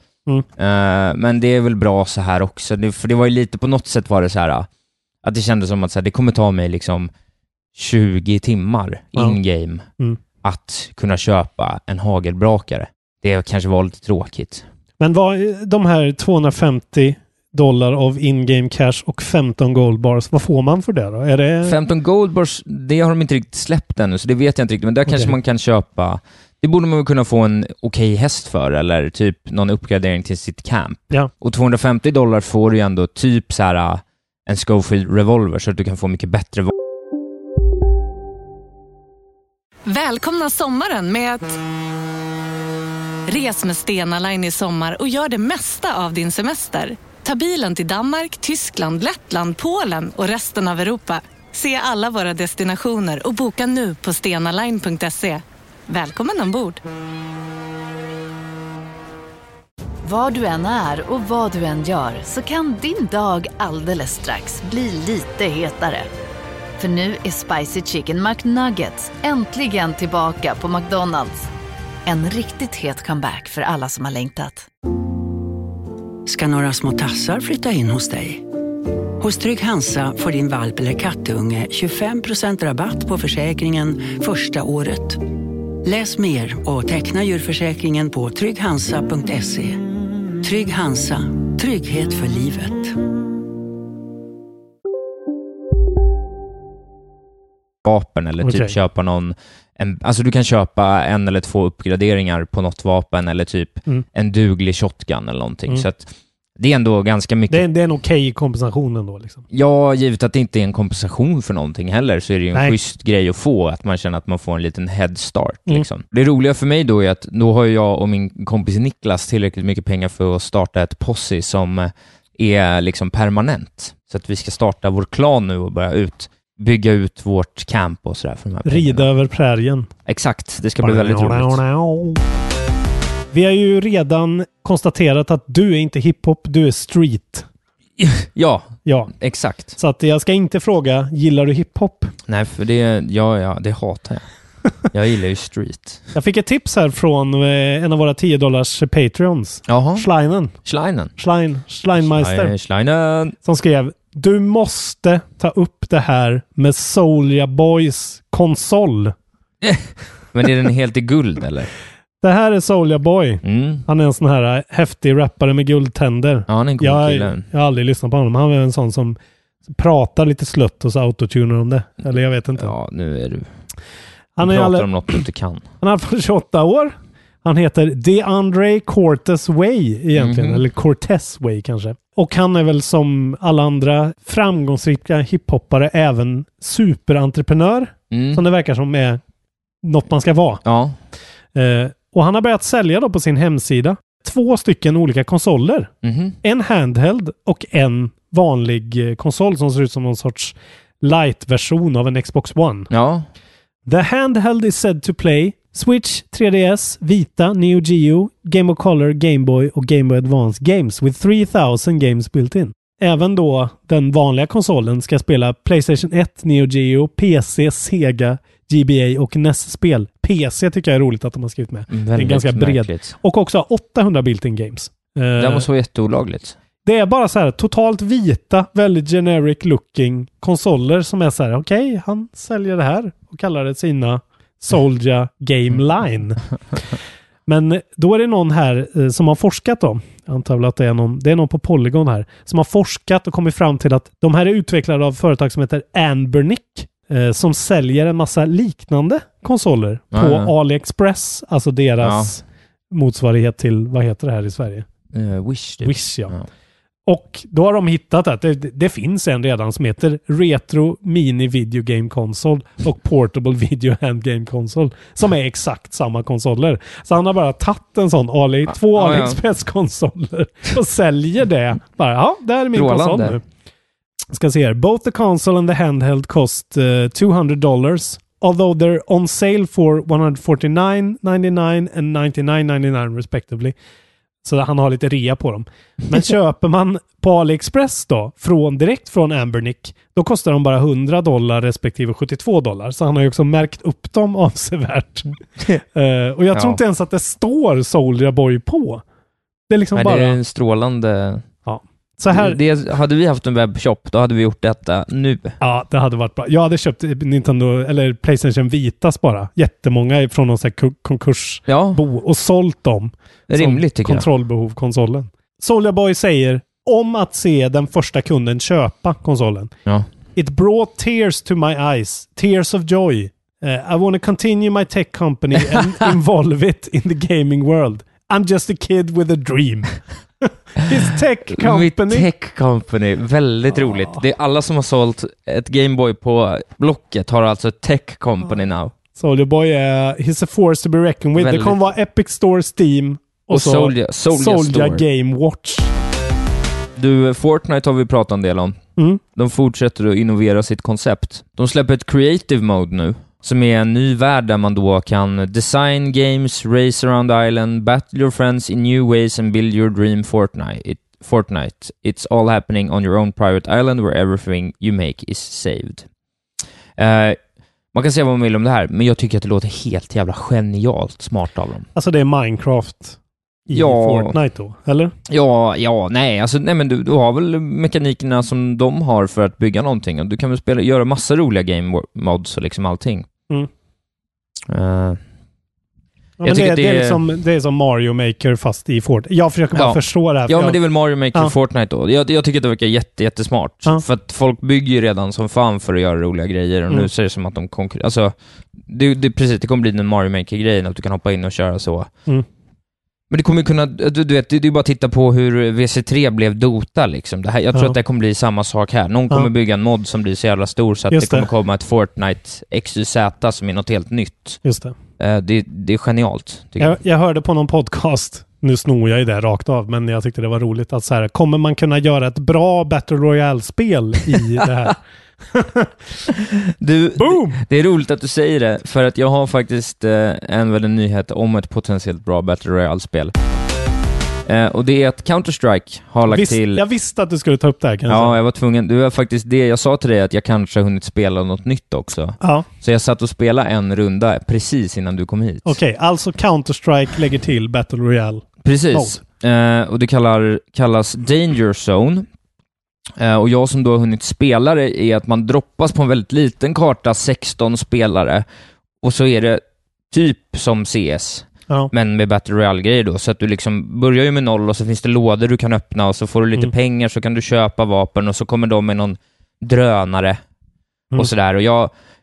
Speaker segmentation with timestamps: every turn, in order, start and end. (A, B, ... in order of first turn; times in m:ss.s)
0:00.6-0:04.7 A
0:05.2-0:07.1 A
0:07.7-0:09.8 A
0:10.4-0:14.6 A
0:15.0-0:21.8 B
0:21.6-0:36.7 A
0:25.0-0:25.3 B
0:39.9-0:41.6 C
0:43.3-0:56.8 C
1:00.0-1:06.1 D
1:06.8-1:11.5 D
1:12.0-1:14.7 D
1:16.2-1:18.4 E
1:19.2-1:25.2 E
1:25.8-1:29.8 E
1:30.4-1:32.9 E
1:37.8-1:47.6 A
1:38.4-1:38.7 B
1:47.5-1:49.4 B
1:49.5-2:09.1 A
2:08.6-2:09.9 B
2:10.1-2:11.6 A
2:10.8-2:12.2 B
2:13.3-2:17.4 B
2:18.0-2:19.8 A
2:18.8-2:19.1 B
2:19.8-2:22.1 B
2:22.3-2:24.2 A
2:24.9-2:26.0 A
2:26.1-2:30.5 B
2:29.7-2:30.0 A
2:30.6-2:31.1 A
2:31.2-2:32.5 B
2:32.0-2:33.4 A
2:33.4-2:39.1 B
2:39.6-2:41.7 A
2:42.2-2:49.2 B
2:43.4-2:43.8 A
2:46.5-2:47.4 A
2:49.7-2:52.7 B
2:52.6-2:53.5 A
2:54.4-2:55.2 B
2:54.4-2:55.6 A
2:55.8-3:09.2 B
3:00.1-3:00.6 A
3:08.1-3:08.4 A
3:09.8-3:10.6 B
3:10.6-3:11.0 A
3:11.5-3:15.9 B
3:16.0-3:16.4 A
3:16.4-3:22.9 B
3:22.9-3:23.3 A
3:23.8-3:45.7 B
3:41.9-3:43.2 A
3:45.4-3:46.6 A
3:46.8-3:56.4 B
3:57.5-4:14.8 B
4:10.1-4:10.5 A
4:12.0-4:12.3 A
4:15.1-4:16.4 A
4:15.8-4:16.4 B
4:17.1-4:33.4 B
4:28.7-4:29.4 A
4:32.7-4:33.4 A
4:34.3-4:43.7 B
4:44.4-4:55.3 B
4:55.9-4:59.0 B
4:56.5-4:56.8 A
4:59.7-5:00.4 B
4:59.9-5:01.4 A
5:01.6-5:02.6 B
5:02.3-5:05.6 A
5:05.6-5:19.7 B
5:11.7-5:12.0 A
5:13.5-5:14.3 A
5:20.4-5:32.3 B
5:31.5-5:38.9 A
5:39.2-5:45.9 B
5:41.4-5:41.9 A
5:43.5-5:45.0 A
5:47.0-5:48.8 A
5:49.3-6:06.0 A
6:07.0-6:07.4 A
6:07.9-6:11.9 A
6:11.9-6:15.1 B
6:13.7-6:14.4 A
6:15.3-6:23.3 A
6:24.7-6:25.2 A
6:26.4-6:30.8 B
6:26.4-6:27.2 A
6:29.7-6:42.1 A
6:43.3-6:54.6 A
6:51.1-6:51.5 B
6:54.6-6:54.9 B
6:55.2-6:57.0 A
6:56.8-7:05.0 B
7:04.3-7:04.7 A
7:05.5-7:05.9 B
7:06.3-7:13.3 A
7:07.2-7:07.6 B
7:14.4-7:16.8 A
7:16.3-7:18.4 B
7:18.1-7:25.8 A
7:22.4-7:22.7 B
7:25.6-7:29.2 B
7:28.6-7:32.3 A
7:33.2-7:38.4 A
7:39.0-7:50.4 A
7:51.1-7:51.9 A